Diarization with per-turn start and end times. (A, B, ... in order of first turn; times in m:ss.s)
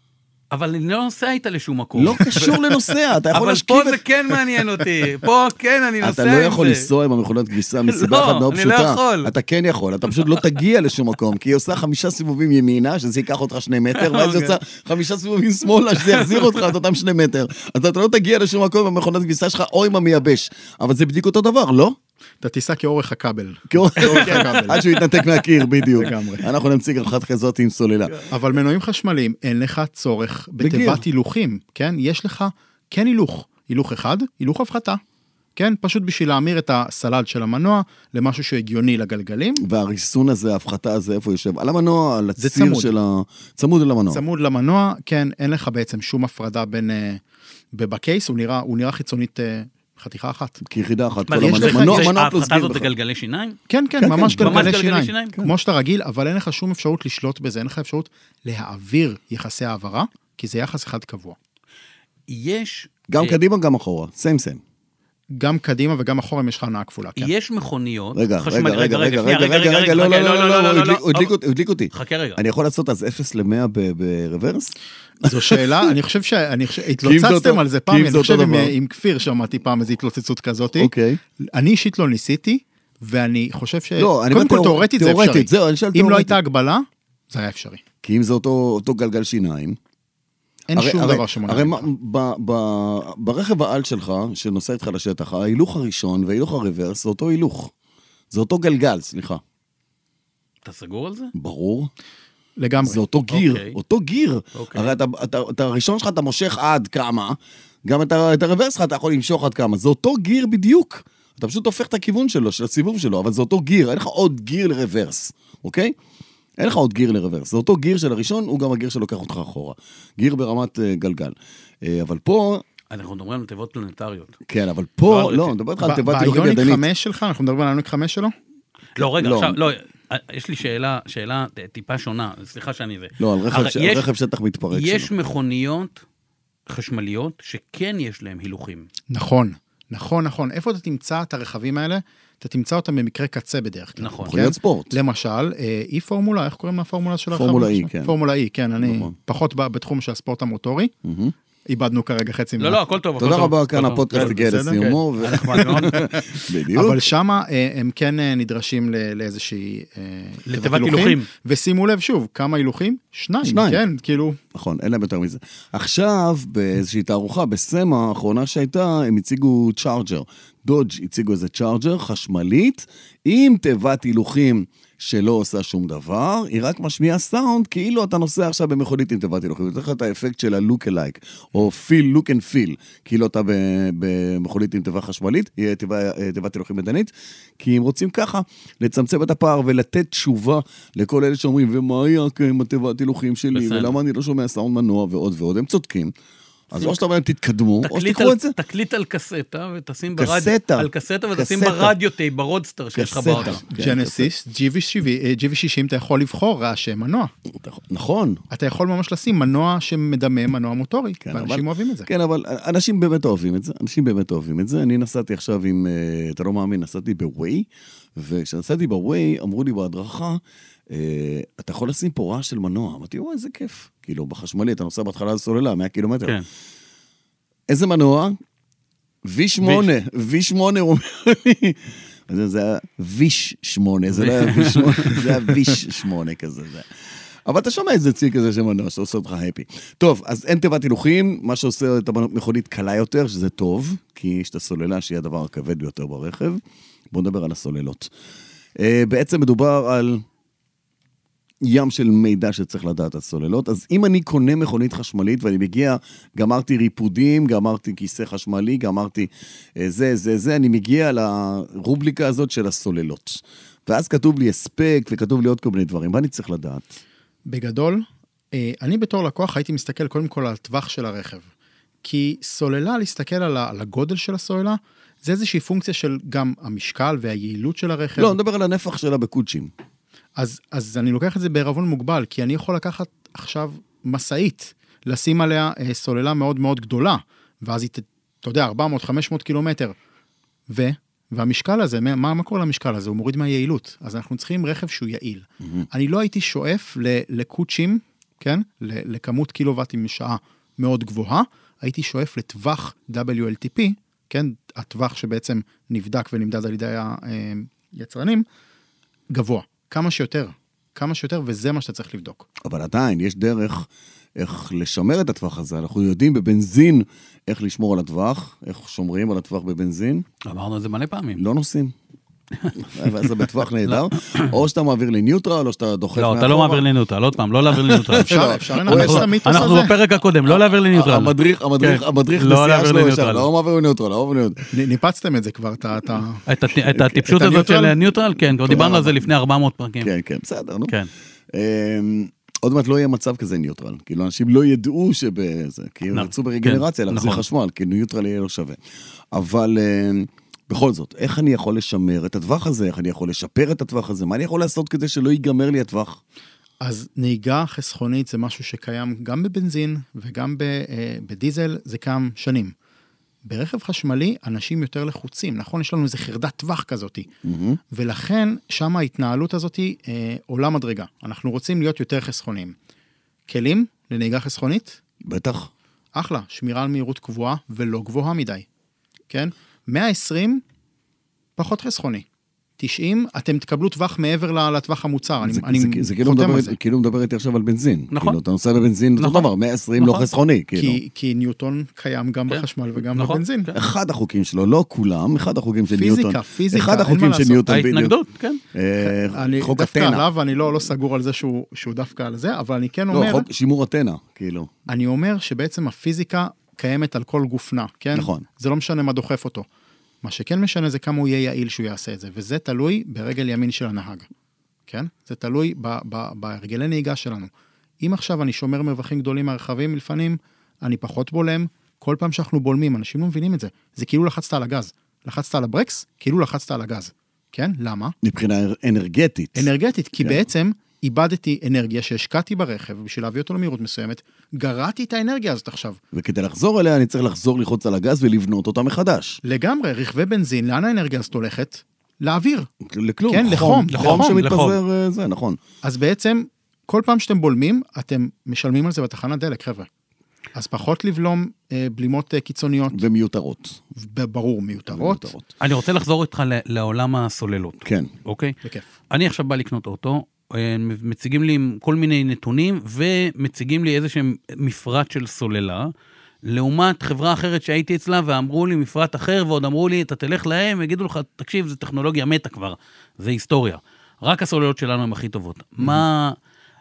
0:00.5-0:02.7 A
0:02.0-0:04.0 B
0:03.3-0:06.9 A
0:06.0-0:22.0 B
0:07.9-0:09.3 A
0:14.0-0:14.6 A
0:16.0-0:16.6 A
0:22.4-0:24.9 C
0:23.7-0:28.2 B
0:24.1-0:24.6 A
0:25.9-0:26.5 C
0:28.3-0:35.0 C
0:30.6-0:31.0 B
0:35.6-0:39.6 C
0:39.6-0:44.2 B
0:42.4-0:42.9 C
0:44.1-0:47.2 C
0:47.7-0:50.6 C
0:50.6-0:52.9 B
0:51.3-0:53.6 A
0:51.4-0:52.1 C
0:53.7-1:01.4 C
0:54.0-0:54.8 B
0:54.4-0:55.4 A
1:02.3-1:03.4 A
1:03.1-1:04.6 B
1:05.4-1:07.3 C
1:07.2-1:11.3 A
1:08.2-1:14.7 B
1:11.9-1:12.4 A
1:15.2-1:27.8 C
1:15.2-1:15.9 B
1:17.0-1:18.7 B
1:20.8-1:21.2 B
1:24.0-1:26.4 B
1:28.0-1:29.8 B
1:30.7-1:31.9 C
1:30.8-1:37.7 B
1:38.3-1:39.4 B
1:40.6-1:41.3 A
1:41.3-1:41.9 B
1:42.6-1:43.0 C
1:42.8-1:55.9 B
1:43.3-1:43.8 A
1:44.6-1:44.9 A
1:56.6-2:02.6 B
2:02.9-2:04.4 A
2:04.5-2:06.8 B
2:05.1-2:05.6 A
2:05.8-2:08.4 C
2:09.0-2:14.1 A
2:09.0-2:09.6 B
2:13.2-2:15.1 B
2:14.7-2:16.0 A
2:16.7-2:18.9 A
2:19.1-2:30.9 C
2:24.0-2:24.4 A
2:24.2-2:25.0 B
2:27.3-2:28.1 B
2:28.8-2:29.1 B
2:31.0-2:31.3 B
2:31.7-2:32.8 C
2:32.6-2:36.1 A
2:33.2-2:37.0 B
2:34.1-2:34.9 C
2:36.7-2:44.4 C
2:40.5-2:41.3 A
2:43.4-2:43.8 B
2:44.5-3:16.1 B
3:13.5-3:14.0 A
3:16.7-3:18.6 B
3:17.8-3:23.6 A
3:20.2-3:21.9 B
3:23.0-3:24.3 B
3:23.3-3:27.3 C
3:27.5-3:28.4 B
3:28.5-3:32.1 C
3:31.2-3:46.4 B
3:47.7-3:48.4 B
3:49.2-3:56.9 B
3:54.1-3:55.4 A
3:57.4-4:08.1 B
4:08.8-4:10.2 B
4:11.6-4:27.0 B
4:27.5-4:31.5 C
4:32.0-4:38.4 C
4:38.2-4:39.7 B
4:40.4-4:50.0 C
4:50.7-5:08.5 C
5:09.3-5:12.5 C
5:12.6-5:20.3 B
5:20.4-5:21.4 A
5:21.4-5:21.9 B
5:22.6-5:24.5 A
5:22.8-5:26.9 B
5:26.2-5:33.5 A
5:27.6-5:29.7 B
5:28.2-5:30.0 C
5:30.5-5:34.7 B
5:34.7-5:36.4 C
5:36.5-5:40.1 A
5:36.9-5:37.2 B
5:37.3-5:38.0 C
5:38.7-5:39.1 B
5:40.0-5:40.9 B
5:41.5-5:48.8 B
5:46.1-5:47.4 A
5:49.3-5:56.2 B
5:56.8-6:02.7 C
6:03.4-6:07.3 C
6:07.4-6:07.8 B
6:07.9-6:12.8 C
6:13.5-6:15.0 C
6:15.2-6:15.7 B
6:16.2-6:18.7 C
6:19.3-6:20.6 C
6:21.6-6:22.3 C
6:22.8-6:26.8 C
6:25.4-6:31.0 B
6:28.1-6:28.4 A
6:29.2-6:30.3 A
6:30.8-6:33.7 C
6:32.5-6:33.8 A
6:33.7-6:38.1 B
6:35.9-6:37.6 C
6:37.7-6:38.6 A
6:38.7-6:40.3 B
6:39.0-6:43.5 C
6:43.1-6:44.7 B
6:44.9-6:49.7 C
6:48.1-6:48.4 B
6:50.2-6:54.3 C
6:54.9-7:08.2 C
7:08.2-7:10.4 B
7:09.6-7:16.0 C
7:16.1-7:19.4 B
7:19.4-7:22.7 C
7:22.8-7:25.6 B
7:23.3-7:24.4 C
7:23.9-7:24.8 A
7:25.8-7:29.9 C
7:30.5-7:33.0 C
7:32.9-7:33.8 B
7:33.9-7:35.3 C
7:34.9-7:35.5 B
7:35.6-7:38.6 A
7:37.8-7:38.1 B
7:39.1-7:45.9 A
7:46.4-7:56.4 A